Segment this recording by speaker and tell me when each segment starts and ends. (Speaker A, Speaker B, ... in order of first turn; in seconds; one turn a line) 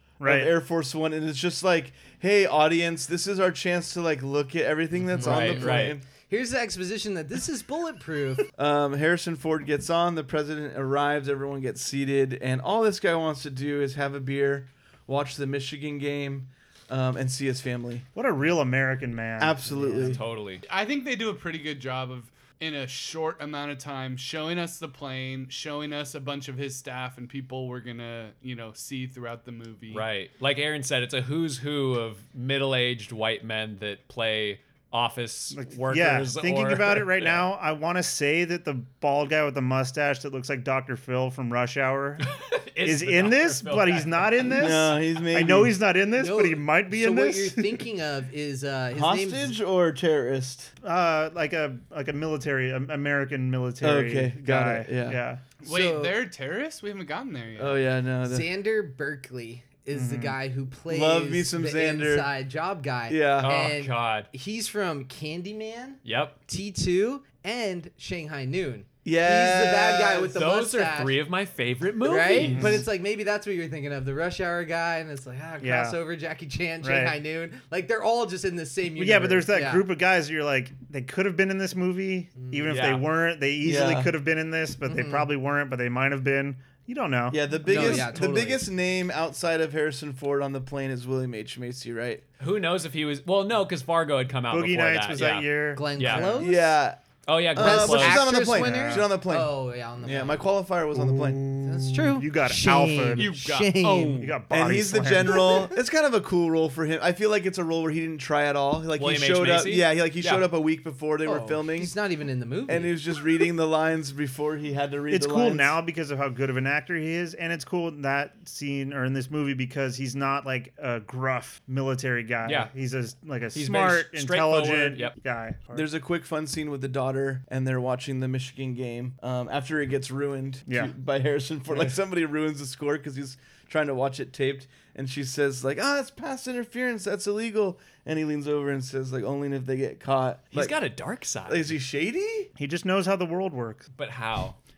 Speaker A: 0.2-0.5
Speaker B: 0.2-6.0
Speaker C: 5.2-6.0
Speaker D: 5.2-8.5
Speaker B: 8.6-18.1
Speaker A: 18.1-20.0
Speaker B: 19.4-20.2
Speaker C: 20.0-20.6
Speaker E: 20.7-30.1
Speaker C: 29.9-37.4
Speaker A: 35.5-42.3
Speaker C: 42.4-44.8
Speaker A: 42.8-47.8
Speaker B: 44.6-45.8
Speaker D: 46.1-49.6
Speaker B: 48.9-50.7
Speaker A: 50.8-55.4
Speaker B: 53.8-55.2
Speaker D: 55.6-56.2
Speaker E: 55.6-57.8
Speaker B: 57.6-58.5
Speaker D: 58.2-71.2
Speaker A: 59.9-60.4
Speaker B: 60.9-62.3
Speaker B: 63.1-63.6
Speaker C: 63.4-64.3
Speaker C: 66.0-66.4
Speaker B: 69.0-70.4
Speaker C: 70.3-72.8
Speaker D: 72.0-79.9
Speaker A: 72.4-72.8
Speaker A: 75.6-76.0
Speaker A: 76.8-77.2
Speaker A: 79.0-88.5
Speaker D: 82.4-82.7
Speaker C: 82.7-83.0
Speaker B: 83.6-84.1
Speaker D: 84.8-85.3
Speaker B: 87.3-92.2
Speaker D: 87.7-88.6
Speaker C: 92.4-96.4
Speaker A: 94.5-96.3
Speaker D: 95.8-96.8
Speaker B: 96.3-97.0
Speaker C: 97.2-98.5
Speaker B: 97.5-101.5
Speaker D: 97.6-100.5
Speaker A: 100.9-103.3
Speaker D: 101.6-104.3
Speaker C: 103.2-104.2
Speaker A: 104.2-105.6
Speaker B: 104.5-111.9
Speaker C: 109.0-110.5
Speaker D: 111.2-112.9
Speaker B: 112.7-115.8
Speaker A: 115.1-125.8
Speaker C: 122.5-122.7
Speaker C: 123.5-125.2
Speaker B: 125.7-140.8
Speaker A: 130.7-130.9
Speaker C: 140.5-141.8
Speaker B: 141.5-142.5
Speaker A: 142.6-143.9
Speaker C: 144.0-144.6